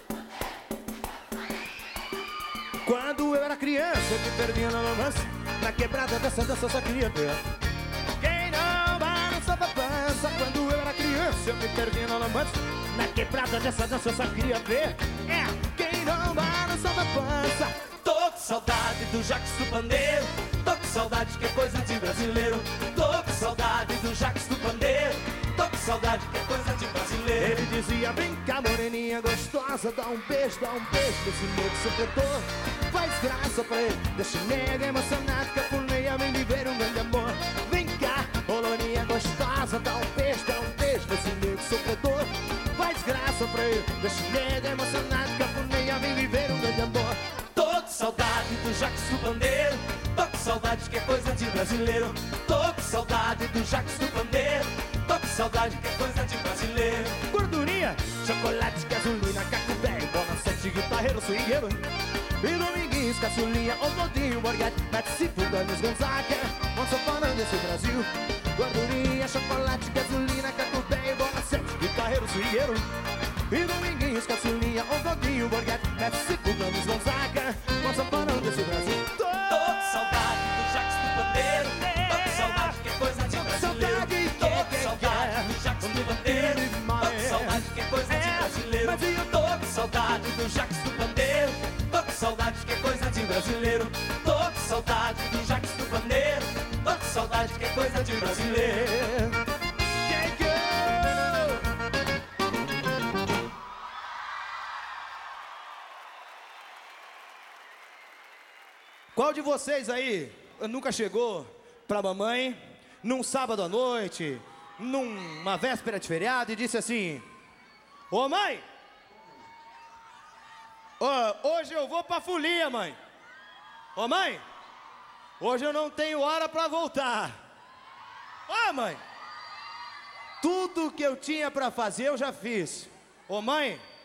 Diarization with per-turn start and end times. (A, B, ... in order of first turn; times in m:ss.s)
0:02.8-0:07.4 A
0:08.2-0:17.8 A
0:18.0-0:27.6 B
0:27.4-0:47.2 A
0:47.5-0:57.2 B
0:57.3-1:01.8 A
1:02.4-1:12.9 A
1:13.5-1:20.0 A
1:19.5-1:39.2 B
1:21.5-1:22.8 A
1:23.5-1:29.2 A
1:40.0-1:41.6 A
1:49.1-1:57.3 A
1:58.1-1:58.6 A
2:01.0-2:03.0 A
2:04.0-2:04.4 A
2:05.4-2:07.4 A
2:08.5-2:09.0 A
2:10.4-2:13.8 A